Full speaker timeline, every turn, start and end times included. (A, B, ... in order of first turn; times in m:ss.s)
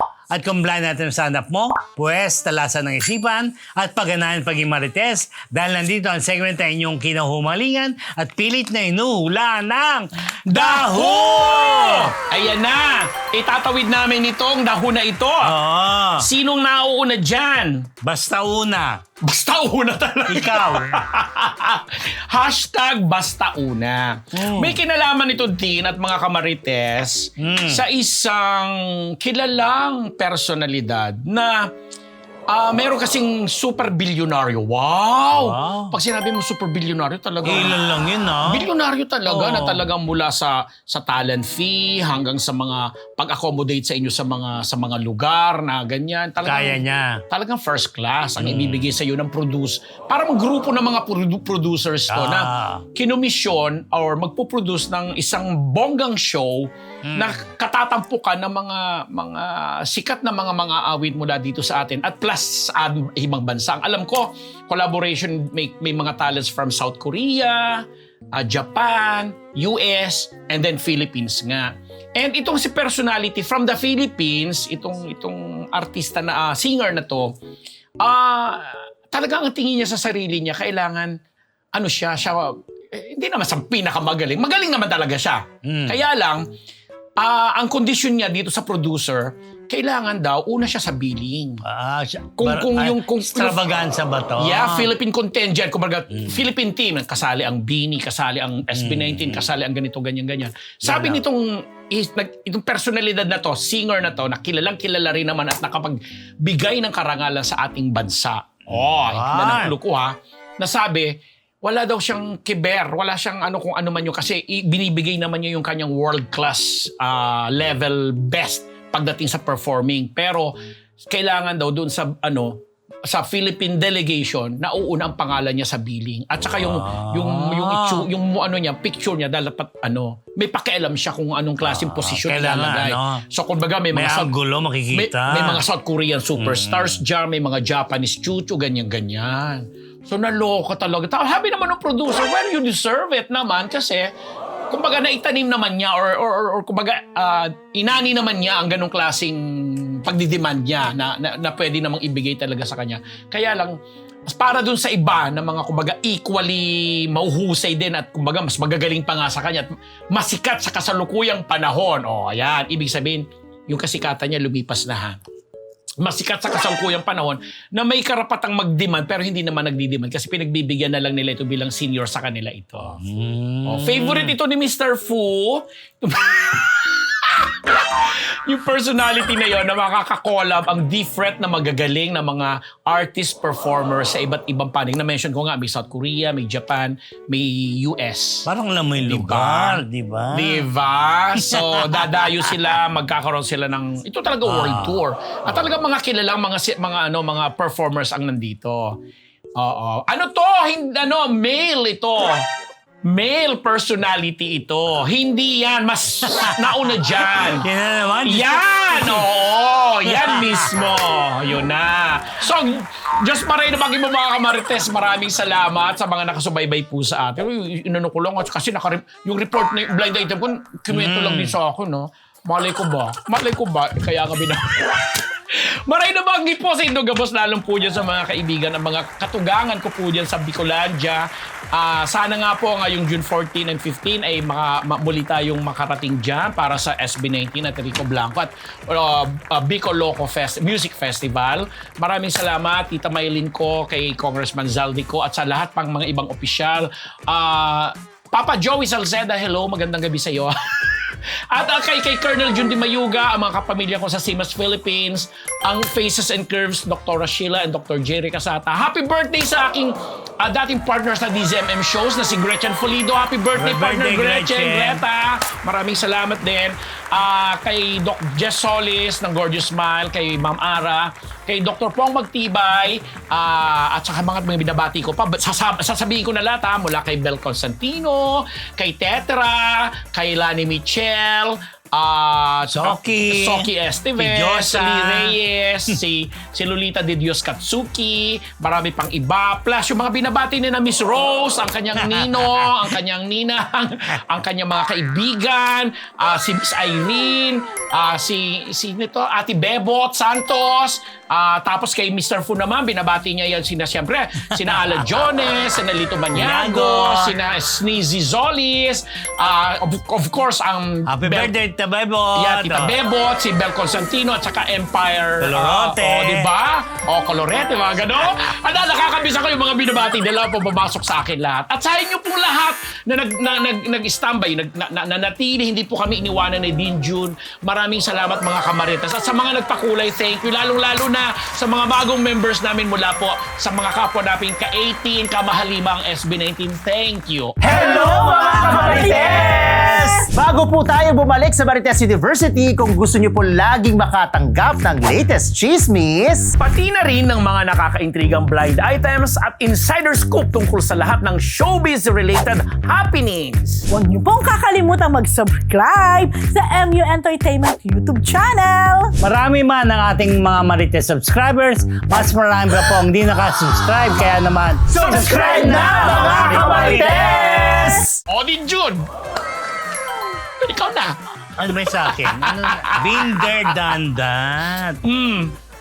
0:00.3-0:12.1 A
0:10.5-0:15.5 B
0:15.4-0:16.3 A
0:16.2-0:17.9 B
0:18.0-0:19.0 A
0:19.2-0:31.7 B
0:20.3-0:20.9 A
0:24.4-0:24.8 A
0:27.4-0:27.8 A
0:32.5-0:37.8 B
0:35.3-0:36.0 A
0:37.4-0:38.7 A
0:38.5-1:17.4 B
0:39.2-0:39.8 A
0:46.4-0:47.2 A
0:48.4-0:48.9 A
0:52.1-0:52.8 A
0:57.1-0:57.4 A
1:18.0-1:21.2 B
1:21.7-1:26.4 B
1:25.6-1:26.0 A
1:27.2-1:31.6 B
1:31.6-1:34.9 A
1:32.4-1:33.8 B
1:34.4-2:00.5 B
1:36.1-1:36.4 A
1:38.7-1:39.5 A
1:40.9-1:41.2 A
1:48.9-1:49.8 A
2:01.1-2:14.3 B
2:06.6-2:08.1 A
2:11.7-2:13.2 A
2:13.9-2:15.6 A
2:14.9-2:24.1 B
2:16.4-2:17.0 A
2:24.7-2:33.8 B
2:34.3-2:45.2 B
2:46.0-2:53.0 B
2:53.0-2:54.4 A
2:53.6-3:08.5 B
3:08.5-3:10.7 A
3:09.0-3:19.0 B
3:11.4-3:12.1 A
3:14.4-3:15.0 A
3:19.6-3:22.5 B
3:23.0-3:27.7 B
3:26.3-3:29.3 A
3:28.2-5:11.5 B
3:30.1-3:30.7 A
3:40.9-3:41.6 A
4:23.6-4:25.0 A
4:42.7-4:45.4 A
4:52.0-4:52.9 A
5:04.7-5:05.3 A
5:06.3-5:07.4 A
5:11.1-5:13.0 A
5:12.4-5:38.0 B
5:15.4-5:16.5 A
5:37.6-5:46.5 C
5:37.6-5:40.2 A
5:38.0-5:39.0 D
5:38.6-5:39.8 B
5:46.6-5:53.9 B
5:53.9-5:59.2 D
5:59.2-6:08.0 A
6:04.9-6:08.1 C
6:05.0-6:05.6 B
6:08.3-6:09.0 B
6:10.6-6:13.9 B
6:11.6-6:15.0 A
6:15.0-6:15.5 B